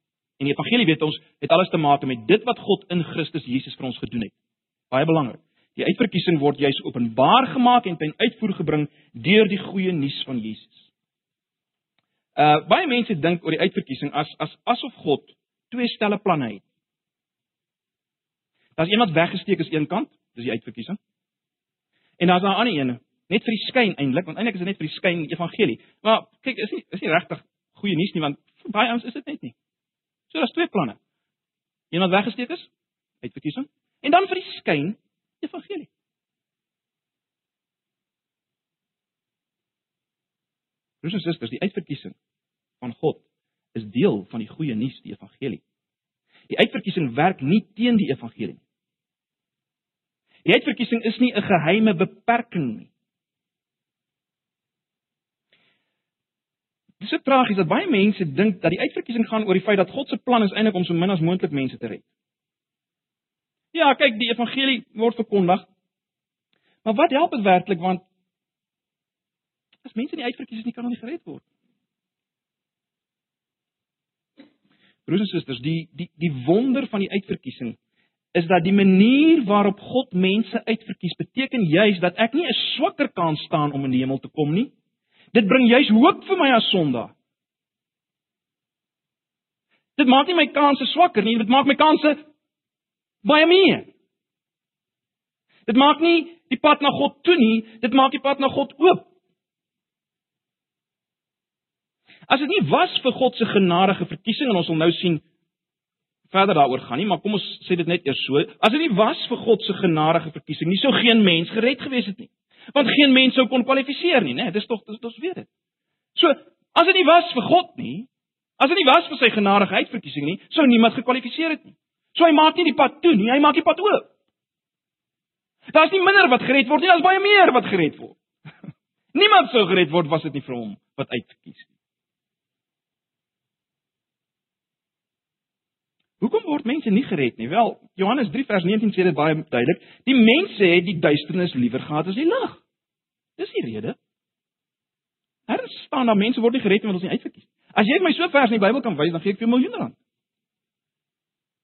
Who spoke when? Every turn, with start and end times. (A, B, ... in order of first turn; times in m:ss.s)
0:00.4-0:04.3 A
0:04.9-0:10.9 A
0:12.4-0:16.6 A
0:18.8-0:21.0 A
0:22.2-0:29.5 A
0:30.3-0:31.0 A
0:31.9-0:32.7 A
0:33.2-0:35.9 A
0:41.0-0:42.2 A
0:42.8-0:43.2 A
0:43.7-0:45.6 A
0:46.5-0:48.6 A
0:50.4-0:52.9 A
0:57.0-1:02.0 A
1:03.7-1:05.7 A
1:06.8-1:08.0 A
1:09.8-1:11.4 A
1:15.1-1:17.8 A
1:18.3-1:24.7 A
1:25.3-1:27.1 A
1:30.0-1:32.2 A
1:33.2-1:33.9 A
1:35.7-1:39.1 A
1:42.3-1:45.2 A
1:46.3-1:55.5 A
1:56.2-1:58.1 A
1:58.6-2:04.1 A
2:05.7-2:08.2 A
2:09.1-2:11.7 A
2:16.2-2:22.6 A
2:23.4-2:24.0 A
2:25.5-2:30.0 A